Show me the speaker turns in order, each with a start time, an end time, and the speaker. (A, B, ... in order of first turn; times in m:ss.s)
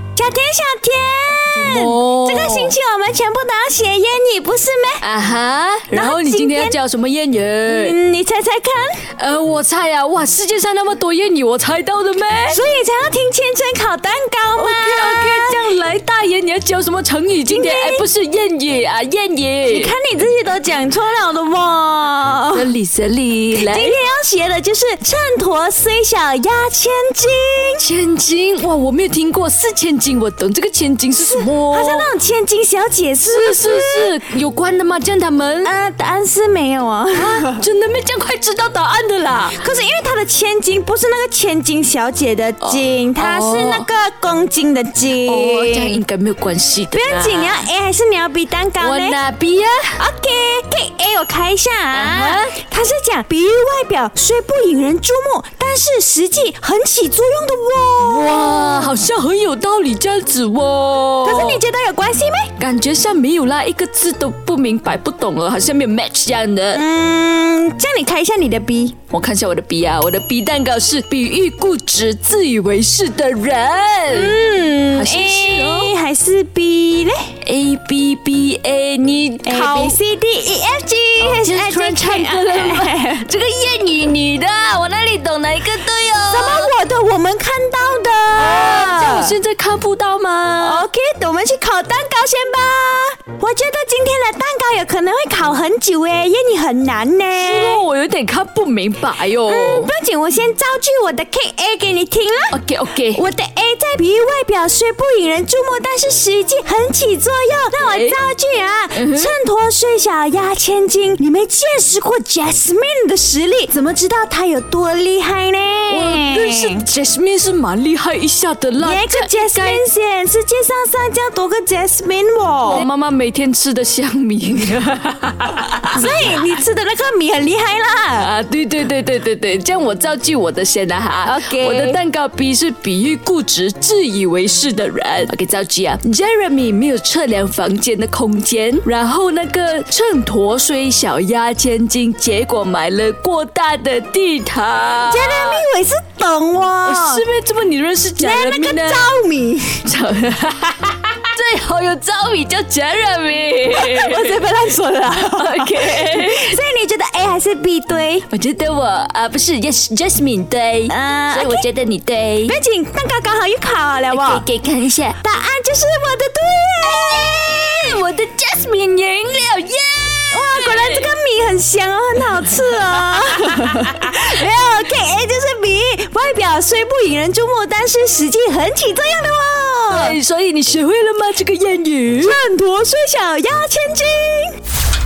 0:00.2-0:05.0 A
0:01.5-0:02.8 B
0:05.0-0:08.0 B
0:05.9-0:06.8 A
0:07.6-0:09.0 A
0:09.1-0:12.6 B
0:12.5-0:15.6 A
0:14.6-0:19.9 B
0:17.4-0:18.0 A
0:19.7-0:22.7 A
0:22.5-0:24.0 B
0:23.5-0:27.8 A
0:27.8-0:32.1 B
0:31.2-0:34.1 A
0:33.3-0:35.7 B
0:35.6-0:37.6 A
0:37.1-0:39.6 B
0:39.5-0:46.0 A
0:42.6-0:43.9 B
0:45.2-0:47.6 B
0:46.9-0:49.2 A
0:48.8-0:50.0 B
0:50.0-0:58.6 A
0:51.9-0:52.6 B
0:58.0-1:01.6 B
1:01.2-1:02.5 A
1:02.6-1:06.8 B
1:06.7-1:09.0 A
1:09.1-1:14.4 B
1:14.1-1:17.3 A
1:14.9-1:15.9 B
1:17.4-1:20.0 B
1:19.4-1:23.2 A
1:21.2-1:26.7 B
1:26.3-1:29.4 A
1:28.4-1:30.8 B
1:30.6-1:37.8 A
1:37.3-1:39.9 B
1:39.4-1:42.6 A
1:42.5-1:43.2 B
1:43.1-1:56.8 A
1:47.8-1:48.2 B
1:48.9-1:49.3 B
1:55.9-1:59.8 B
1:58.8-2:02.9 A
2:02.6-2:06.4 B
2:05.9-2:08.3 A
2:08.2-2:25.6 B
2:11.2-2:12.0 A
2:25.0-2:27.2 A
2:26.8-2:29.1 B
2:28.2-2:29.8 A
2:29.8-2:34.4 B
2:33.7-2:38.3 A
2:35.1-2:36.5 B
2:38.3-2:42.6 B
2:40.9-2:41.7 A
2:42.4-2:44.4 A
2:44.1-2:45.2 B
2:45.2-2:48.0 A
2:46.8-2:51.1 B
2:50.3-3:00.2 A
2:59.9-3:02.4 B
3:02.2-3:04.6 A